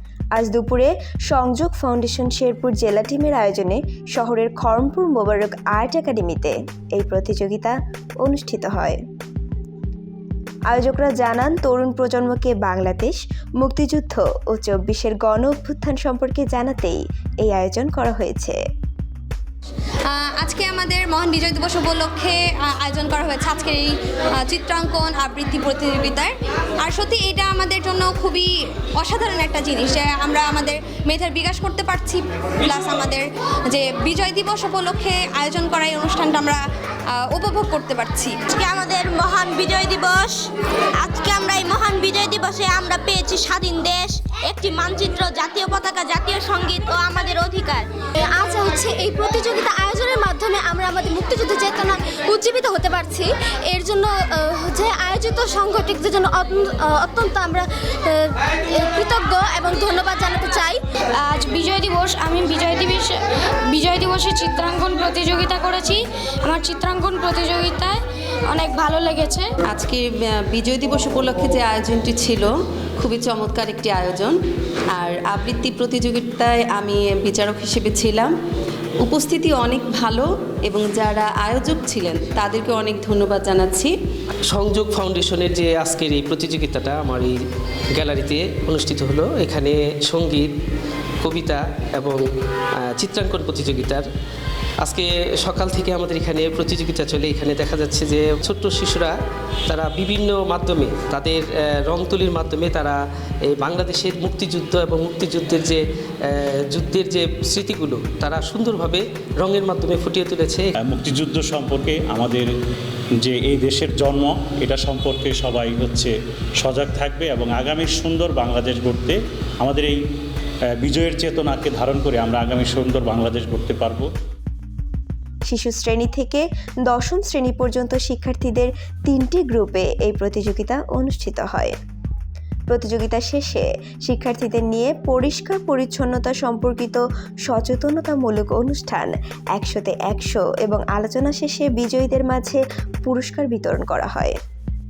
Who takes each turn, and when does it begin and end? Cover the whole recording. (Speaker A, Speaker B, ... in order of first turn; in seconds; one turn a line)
Speaker A: 0.3-9.0
Speaker A: 10.7-18.6
Speaker B: 20.0-36.6
Speaker B: 37.1-38.4
Speaker C: 38.5-40.3
Speaker C: 41.0-47.8
Speaker D: 48.2-60.8
Speaker E: 61.2-69.7
Speaker F: 69.7-72.5
Speaker F: 73.0-74.3
Speaker F: 75.0-78.3
Speaker F: 79.0-83.9
Speaker G: 84.5-87.3
Speaker G: 87.9-90.5
Speaker G: 91.2-92.2
Speaker G: 92.8-94.0
Speaker G: 94.8-110.7
Speaker H: 110.8-112.5
Speaker H: 113.2-120.0
Speaker H: 120.8-124.1
Speaker A: 125.5-131.8
Speaker A: 132.7-144.4